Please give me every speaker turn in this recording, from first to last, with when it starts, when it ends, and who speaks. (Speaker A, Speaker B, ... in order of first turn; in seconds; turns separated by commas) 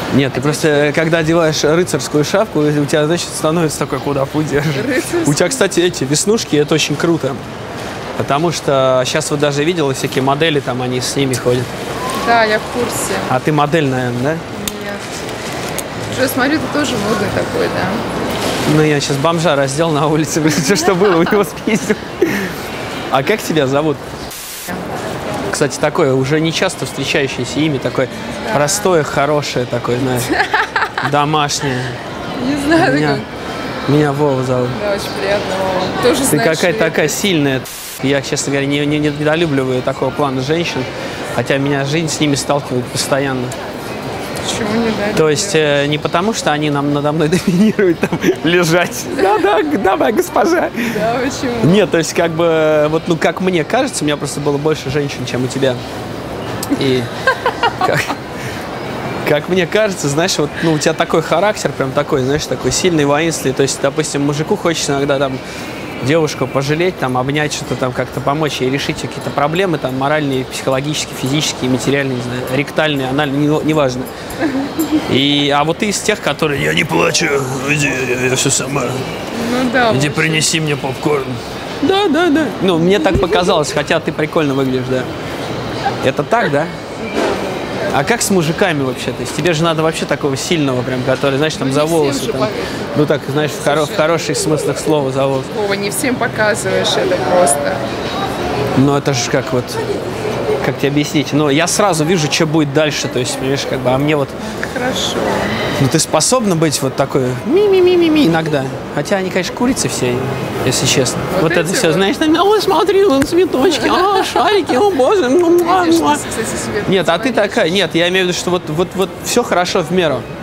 Speaker A: 0.1-7.4, Speaker B: 0.3-1.0, Speaker B: 4.7-5.7, Speaker A: 8.2-11.7, Speaker B: 12.2-13.4, Speaker A: 13.3-14.4, Speaker B: 14.5-15.1, Speaker B: 16.1-18.0, Speaker A: 18.6-22.5, Speaker B: 20.6-21.4, Speaker A: 23.1-24.0, Speaker A: 25.5-30.3, Speaker B: 28.3-29.0, Speaker B: 30.1-30.9, Speaker A: 31.0-32.0, Speaker B: 32.4-33.2, Speaker A: 32.7-33.2, Speaker A: 33.9-34.8, Speaker B: 34.7-37.2, Speaker A: 36.3-43.5, Speaker B: 44.4-45.8, Speaker A: 45.1-51.0, Speaker B: 49.1-49.5, Speaker B: 50.8-51.9, Speaker A: 51.6-55.8, Speaker A: 56.7-57.1, Speaker A: 57.8-58.1, Speaker A: 59.2-65.4, Speaker A: 66.0-74.1, Speaker A: 75.1-79.1, Speaker B: 79.3-80.5, Speaker A: 79.9-85.1, Speaker B: 82.7-83.6, Speaker A: 86.0-86.8, Speaker B: 87.0-87.3, Speaker A: 87.9-95.5, Speaker B: 91.5-94.3, Speaker B: 95.5-97.8, Speaker A: 98.7-99.9, Speaker A: 100.6-104.4, Speaker B: 104.5-105.6, Speaker A: 105.7-116.2, Speaker B: 111.3-112.1, Speaker B: 113.6-114.6, Speaker B: 115.6-117.8, Speaker A: 116.8-120.3